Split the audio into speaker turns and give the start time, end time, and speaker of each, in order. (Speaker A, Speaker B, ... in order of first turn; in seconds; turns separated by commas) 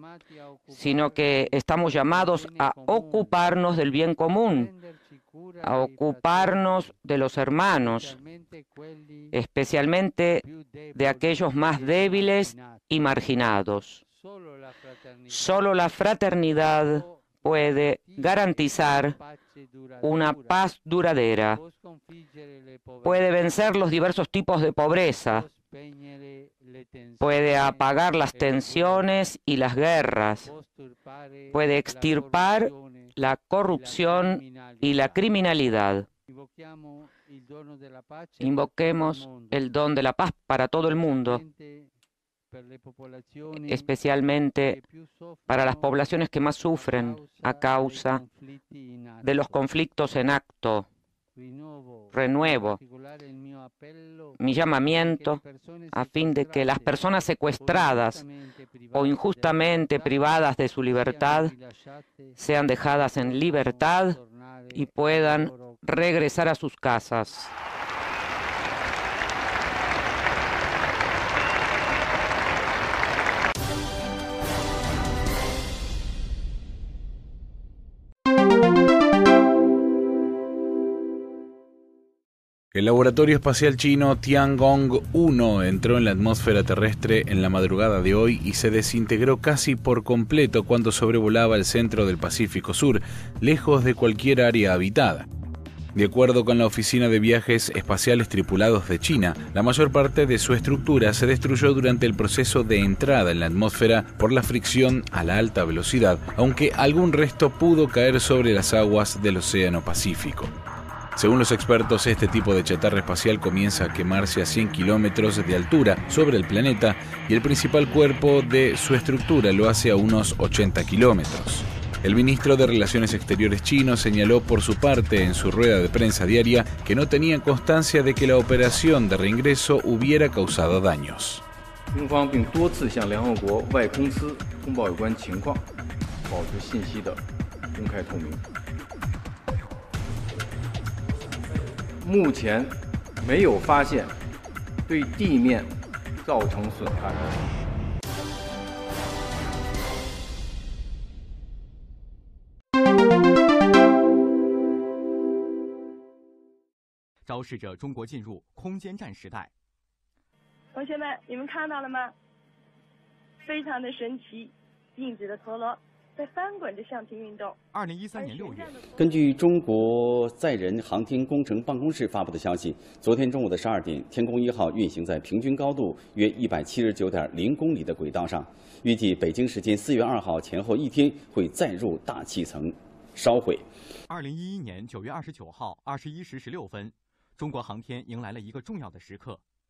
Speaker A: 0.7-4.7, Speaker A: 5.6-8.2, Speaker A: 9.3-10.4, Speaker A: 10.9-14.0, Speaker A: 15.3-19.1, Speaker A: 20.0-21.6, Speaker A: 23.0-25.5, Speaker A: 27.2-30.5, Speaker A: 31.5-36.0, Speaker A: 38.4-41.4, Speaker A: 43.5-44.8, Speaker A: 45.5-48.2, Speaker A: 49.2-50.9, Speaker A: 52.1-52.8, Speaker A: 54.4-58.2, Speaker A: 58.9-61.5, Speaker A: 62.4-64.2, Speaker A: 64.7-67.5, Speaker B: 82.7-95.2, Speaker B: 95.9-110.5, Speaker B: 111.2-131.4, Speaker C: 131.9-135.6, Speaker C: 136.3-137.2, Speaker C: 137.7-138.4, Speaker C: 142.0-144.2, Speaker C: 144.9-147.4, Speaker D: 157.2-159.5, Speaker E: 160.7-162.1, Speaker E: 163.4-167.5, Speaker D: 167.7-168.9, Speaker E: 168.2-169.4, Speaker F: 169.0-183.6, Speaker D: 184.1-189.4